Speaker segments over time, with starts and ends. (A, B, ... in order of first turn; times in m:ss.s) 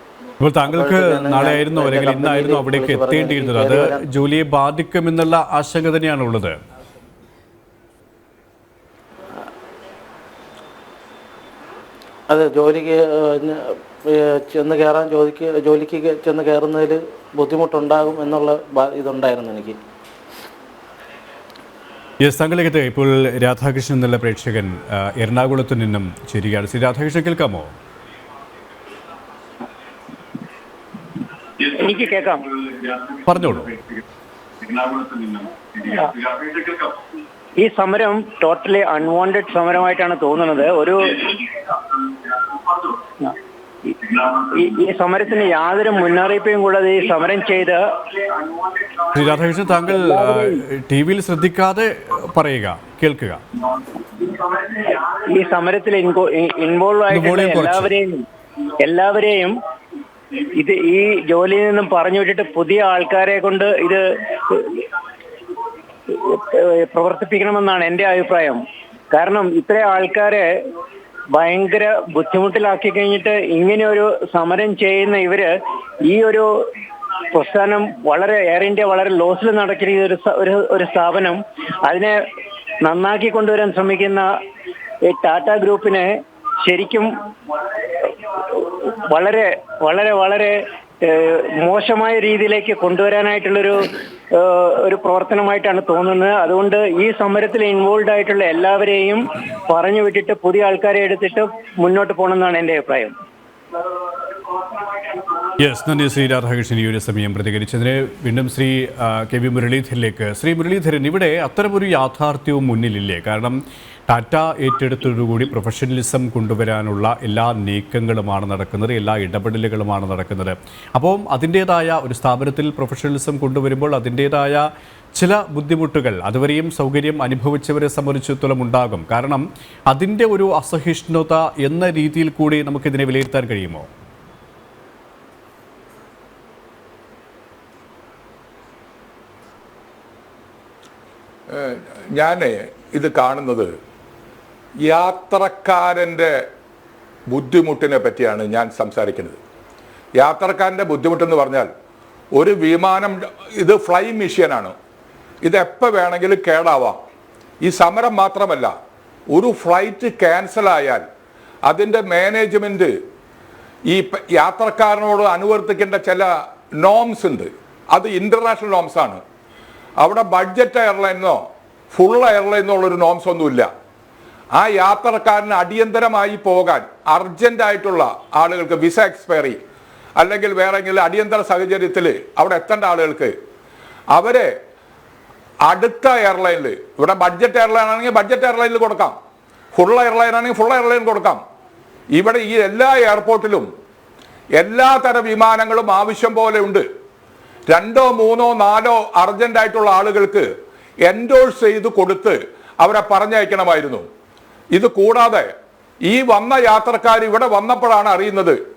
0:00.4-0:06.6 A
0:00.7-0:04.1 B
0:12.3-0:19.8 B
0:22.2-0:27.7 A
0:31.6-0:32.6 C
0:33.2-0:33.7 A
0:35.8-0:36.7 C
0:37.6-0:41.5 C
0:43.9-0:48.2 C
0:49.1-0:53.4 A
0:50.0-0:50.6 C
0:54.3-0:58.2 C
0:57.1-0:57.9 A
0:58.8-0:59.5 C
1:00.6-1:04.8 C
1:06.1-1:08.6 C
1:09.1-1:10.5 C
1:11.3-1:15.5 C
1:16.0-1:16.5 C
1:17.3-1:22.2 C
1:22.8-1:24.3 C
1:25.0-1:27.1 C
1:28.0-1:43.1 C
1:45.6-2:13.9 A
2:21.5-2:23.7 D
2:24.8-2:26.4 D
2:27.3-2:29.4 D
2:30.2-2:31.7 D
2:32.3-2:34.7 D
2:35.4-2:37.0 D
2:37.6-2:38.7 D
2:39.3-2:41.0 D
2:41.7-2:42.9 D
2:43.9-2:49.2 D
2:50.0-2:53.7 D
2:54.5-2:59.6 D
3:00.2-3:03.3 D
3:04.1-3:04.5 D
3:05.7-3:09.2 D
3:09.7-3:11.4 D
3:12.2-3:13.7 D
3:14.6-3:16.8 D
3:17.7-3:20.5 D
3:21.0-3:24.0 D
3:24.7-3:25.5 D
3:26.0-3:28.6 D